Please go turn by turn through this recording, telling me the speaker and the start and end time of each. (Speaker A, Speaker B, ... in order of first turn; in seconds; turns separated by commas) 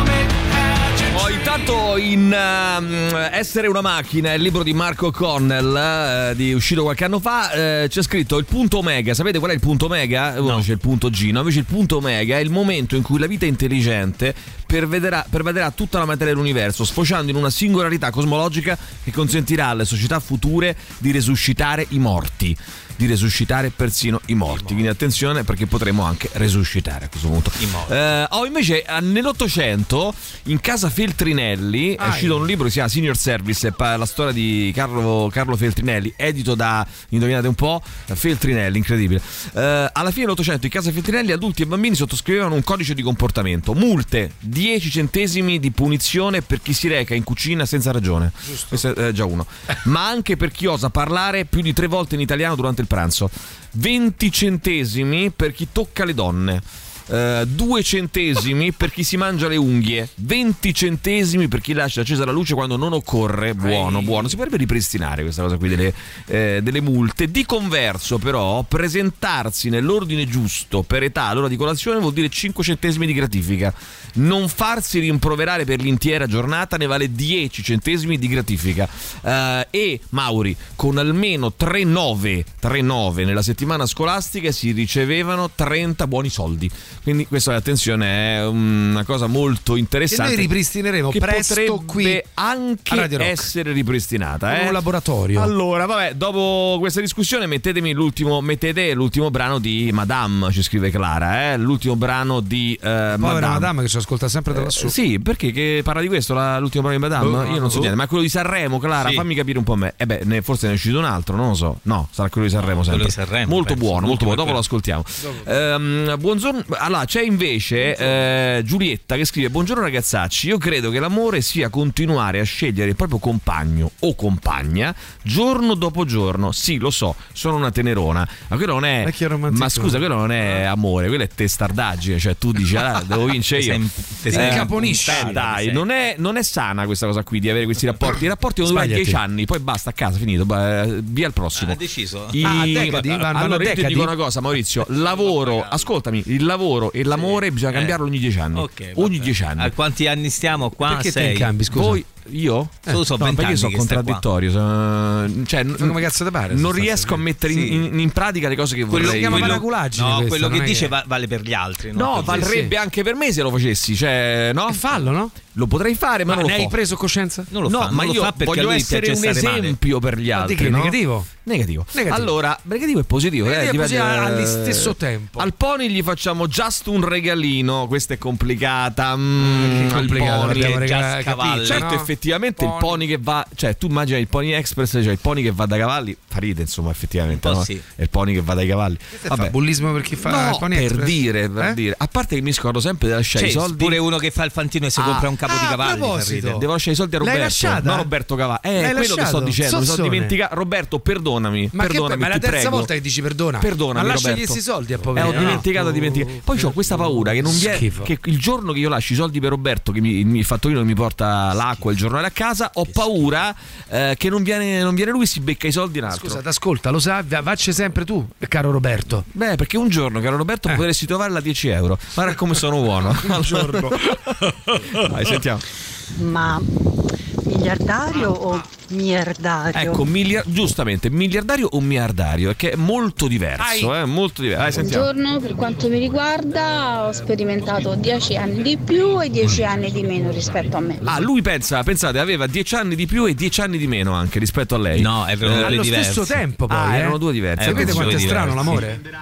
Speaker A: 1.1-90.5, Speaker B: 24.5-24.9, Speaker B: 27.6-28.0, Speaker C: 32.0-32.5, Speaker C: 48.5-48.8, Speaker B: 63.6-64.3, Speaker C: 90.1-92.2, Speaker A: 91.1-94.8, Speaker C: 92.9-93.5, Speaker C: 94.5-95.5, Speaker A: 95.3-103.7, Speaker C: 103.2-105.0, Speaker A: 104.5-141.8, Speaker C: 107.2-107.9, Speaker B: 109.0-109.2, Speaker B: 112.6-114.6, Speaker C: 115.2-115.5, Speaker C: 129.0-130.1, Speaker B: 133.5-135.8, Speaker C: 134.3-135.3, Speaker C: 138.7-139.2, Speaker B: 141.6-143.0, Speaker A: 142.3-149.7, Speaker C: 142.4-144.2, Speaker B: 144.9-145.9, Speaker B: 147.1-148.0, Speaker B: 148.5-151.5, Speaker C: 150.8-152.0, Speaker A: 151.7-159.7, Speaker B: 152.9-154.2, Speaker C: 155.8-157.8, Speaker C: 158.9-160.9, Speaker B: 158.9-162.6, Speaker A: 161.9-165.0, Speaker C: 162.3-162.7, Speaker C: 164.7-165.3, Speaker A: 165.5-166.8, Speaker C: 166.3-167.5, Speaker B: 167.5-169.8, Speaker A: 167.7-180.8, Speaker C: 170.3-171.3, Speaker C: 171.9-172.3, Speaker C: 173.4-175.5, Speaker C: 179.4-183.0, Speaker B: 180.0-181.9, Speaker A: 181.6-189.6, Speaker B: 187.3-187.8, Speaker C: 189.1-191.8, Speaker A: 190.2-194.0, Speaker B: 193.3-196.6, Speaker A: 195.0-195.3, Speaker C: 195.4-196.7, Speaker A: 196.5-202.9, Speaker C: 197.2-198.1, Speaker C: 198.8-200.3, Speaker C: 201.7-208.1, Speaker A: 203.6-204.6, Speaker B: 205.1-205.6, Speaker A: 205.1-216.4, Speaker B: 211.5-211.9, Speaker B: 212.8-213.3, Speaker C: 216.1-219.3, Speaker A: 219.3-225.6, Speaker C: 223.0-224.0, Speaker D: 226.2-226.7, Speaker D: 227.5-229.9, Speaker A: 229.7-235.1, Speaker C: 233.6-233.9, Speaker E: 234.8-241.0, Speaker D: 240.6-241.0, Speaker A: 241.0-245.8, Speaker B: 244.9-246.4, Speaker C: 245.6-249.0, Speaker A: 246.7-248.8, Speaker B: 247.6-248.8